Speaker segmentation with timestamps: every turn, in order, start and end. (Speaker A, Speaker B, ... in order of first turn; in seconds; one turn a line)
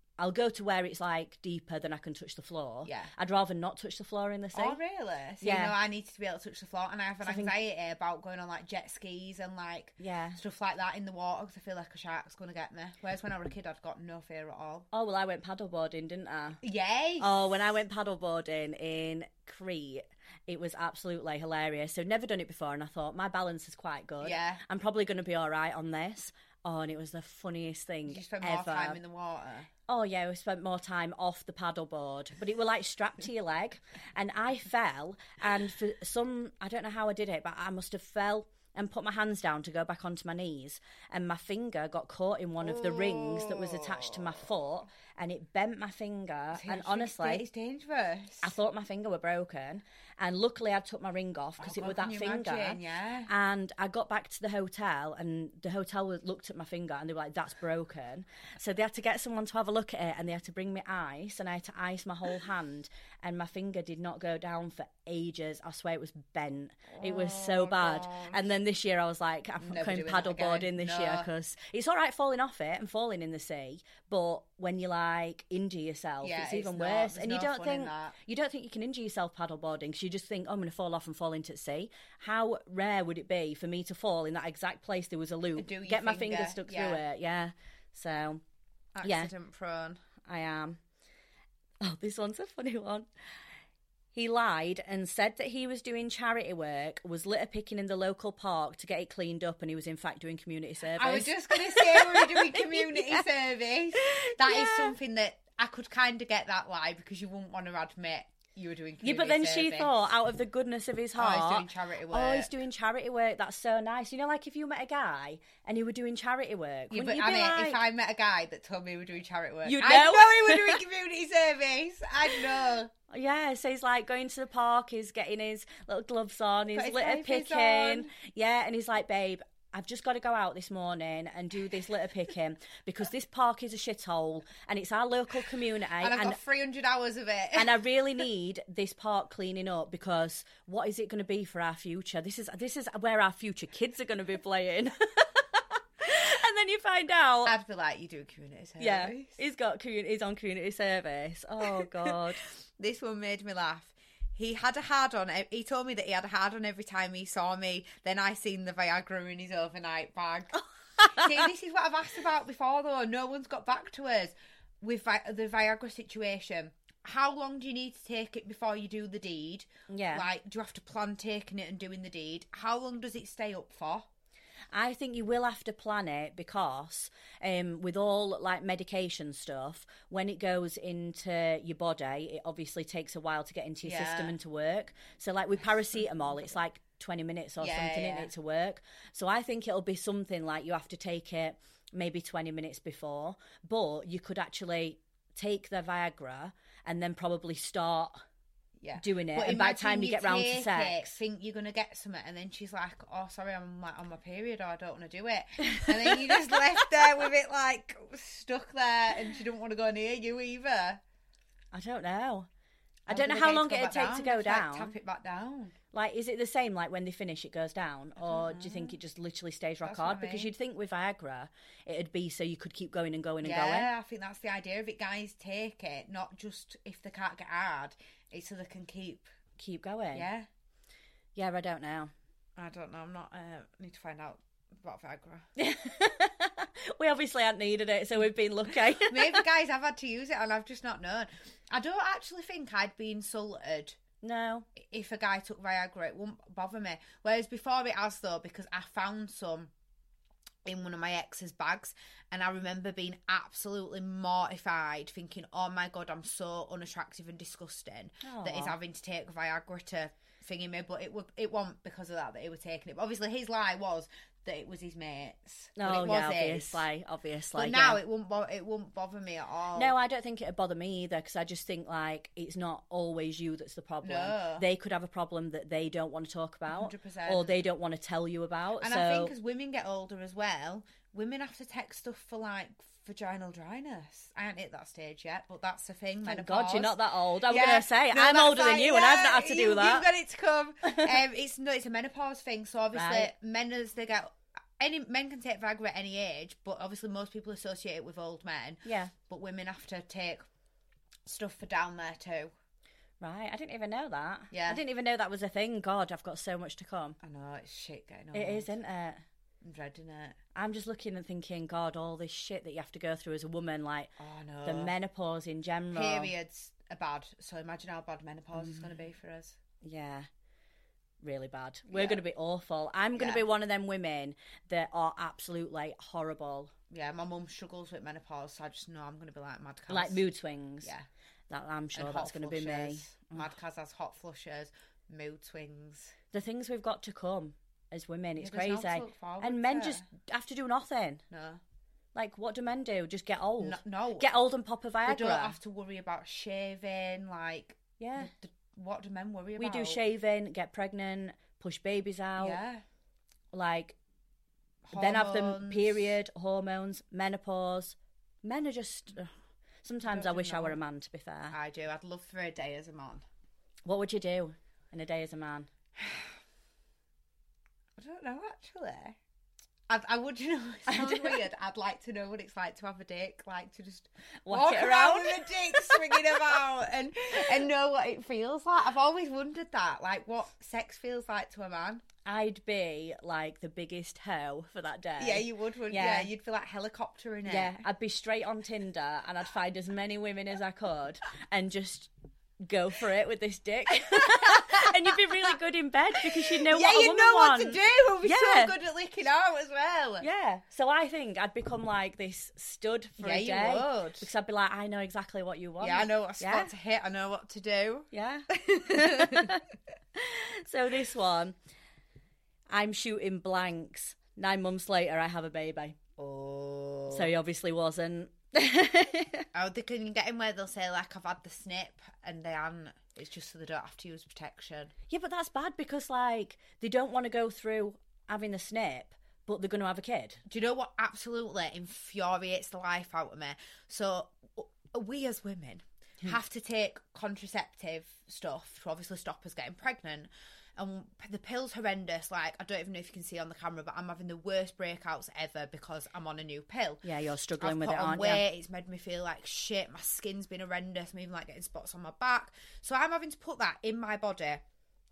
Speaker A: 0.2-4.8
Speaker B: 2.8-3.1
Speaker B: 4.5-14.9
Speaker A: 5.4-5.7
Speaker A: 7.2-7.5
Speaker A: 10.0-10.4
Speaker A: 14.9-16.6
Speaker B: 16.6-17.4
Speaker A: 17.2-29.0
Speaker B: 24.2-24.6
Speaker B: 28.1-29.7
Speaker A: 29.9-47.4
Speaker B: 42.6-44.5
Speaker B: 46.5-48.5
Speaker A: 48.4-88.4
Speaker B: 51.6-53.3
Speaker B: 66.9-68.5
Speaker B: 69.6-71.3
Speaker B: 76.2-78.2
Speaker B: 85.5-87.0
Speaker B: 88.9-90.0
Speaker A: 89.0-89.3
Speaker A: 90.2-90.8
Speaker A: 91.8-93.1
Speaker A: 94.1-103.2
Speaker B: 100.9-109.9
Speaker A: 104.0-104.9
Speaker A: 109.0-117.8
Speaker B: 111.2-112.5
Speaker B: 116.9-122.9
Speaker A: 119.6-120.8
Speaker A: 122.4-136.4
Speaker B: 126.7-128.1
Speaker B: 136.0-137.8
Speaker A: 137.6-147.5
Speaker B: 147.4-149.4
Speaker A: 148.8-152.4
Speaker B: 151.8-174.1
Speaker A: 161.1-161.4
Speaker A: 169.9-170.2
Speaker A: 174.7-198.2
Speaker B: 183.8-184.3
Speaker B: 187.6-188.3
Speaker B: 198.8-211.0
Speaker A: 199.0-201.1
Speaker A: 205.8-206.1
Speaker A: 211.7-212.5
Speaker A: 213.1-214.9
Speaker B: 213.1-215.7
Speaker A: 215.9-223.9
Speaker B: 218.2-218.9
Speaker B: 219.8-220.5
Speaker B: 223.4-229.3
Speaker A: 229.6-230.3
Speaker B: 230.1-230.5
Speaker A: 231.3-232.1
Speaker B: 232.6-235.5
Speaker A: 235.6-239.4
Speaker B: 239.0-244.0
Speaker A: 244.2-244.7
Speaker B: 244.7-249.7
Speaker B: 250.6-266.8
Speaker A: 258.2-258.8
Speaker A: 265.8-268.0
Speaker B: 267.5-269.9
Speaker A: 269.8-279.3
Speaker B: 274.0-274.6
Speaker B: 276.7-277.6
Speaker B: 278.8-300.4
Speaker A: 286.2-290.1
Speaker A: 292.9-293.3
Speaker A: 298.8-299.1
Speaker B: 301.2-302.5
Speaker A: 303.2-307.2
Speaker B: 304.5-304.8
Speaker B: 307.2-308.7
Speaker A: 308.3-309.2
Speaker B: 309.6-310.4
Speaker A: 310.5-314.1
Speaker B: 314.2-314.9
Speaker A: 314.6-316.3
Speaker B: 315.9-319.6
Speaker A: 318.6-318.9
Speaker A: 319.8-320.3
Speaker A: 321.2-326.7
Speaker B: 321.9-322.2
Speaker B: 323.1-323.4
Speaker B: 326.9-330.2
Speaker A: 329.9-330.9
Speaker A: 331.5-333.5
Speaker B: 331.9-336.1
Speaker A: 336.3-341.2
Speaker B: 338.4-340.1
Speaker B: 341.3-341.6
Speaker A: 342.1-345.6
Speaker B: 343.6-344.3
Speaker B: 345.0-350.0
Speaker A: 348.0-348.3
Speaker A: 349.6-352.6
Speaker B: 352.4-352.8
Speaker A: 353.5-353.9
Speaker B: 354.9-356.1
Speaker A: 354.9-359.3
Speaker A: 359.8-361.5
Speaker B: 360.0-360.8
Speaker B: 361.5-363.2
Speaker A: 363.8-365.7
Speaker B: 366.0-366.3
Speaker B: 368.0-369.2
Speaker B: 369.9-382.0
Speaker A: 370.9-371.4
Speaker A: 374.4-376.4
Speaker A: 382.2-386.3
Speaker B: 385.2-387.8
Speaker A: 387.5-398.7
Speaker B: 394.2-395.2
Speaker B: 396.5-400.2
Speaker A: 400.2-406.7
Speaker B: 403.2-404.3
Speaker B: 405.8-409.6
Speaker A: 408.1-409.6
Speaker A: 410.1-411.6
Speaker A: 412.7-416.0
Speaker B: 416.2-417.3
Speaker A: 417.1-419.5
Speaker B: 419.5-424.9
Speaker A: 425.1-430.4
Speaker B: 430.5-447.0
Speaker A: 447.0-448.4
Speaker B: 447.6-454.6